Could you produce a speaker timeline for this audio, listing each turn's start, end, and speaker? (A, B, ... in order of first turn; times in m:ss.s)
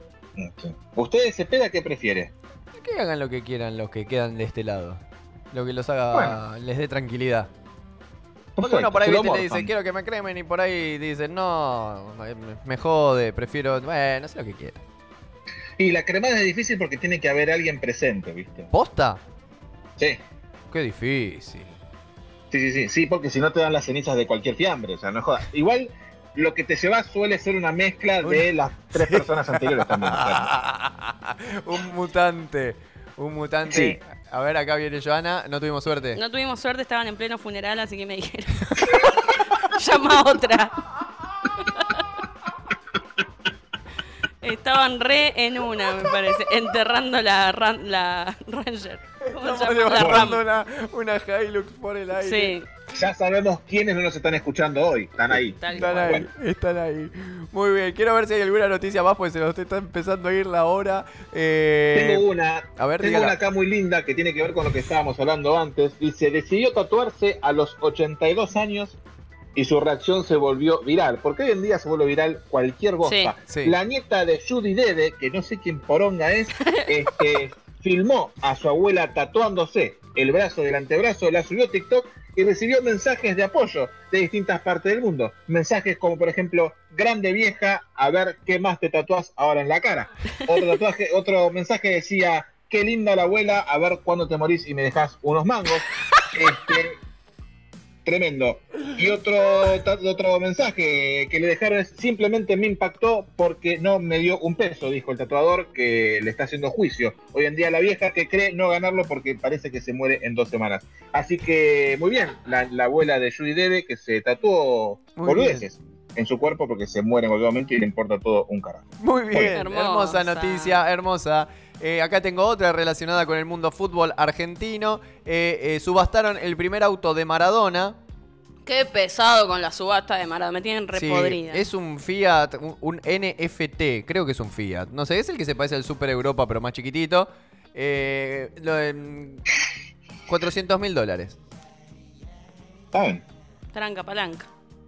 0:00.4-0:02.3 A
0:02.7-0:07.5 B
0:06.1-0:06.4 A
0:08.6-0:09.7 A
0:08.6-0:14.8 B
0:15.8-0:18.7 A
0:18.7-0:19.2 B
0:20.7-0:21.8 B
0:22.5-0:30.5 A
0:28.2-0:36.2 B
0:33.7-0:34.0 A
0:36.1-0:40.9 C
0:38.8-0:39.1 A
0:41.5-0:42.0 C
0:44.4-0:50.4 C
0:49.3-0:52.6 B
0:50.0-0:50.3 A
0:52.2-0:52.6 C
0:52.9-0:56.3 A
0:55.6-0:56.2 C
0:55.7-1:02.2 B
1:01.9-1:09.0 A
1:02.8-1:03.4 B
1:09.6-1:37.0 A
1:13.0-1:13.3 C
1:13.5-1:13.8 B
1:16.6-1:17.0 C
1:38.0-1:59.6 A
1:55.2-1:55.6 B
1:59.0-2:08.0 B
1:59.5-2:00.8 C
2:08.6-2:11.6 C
2:10.9-2:19.4 B
2:20.3-2:21.4 B
2:22.9-2:23.2 A
2:23.7-2:24.5 C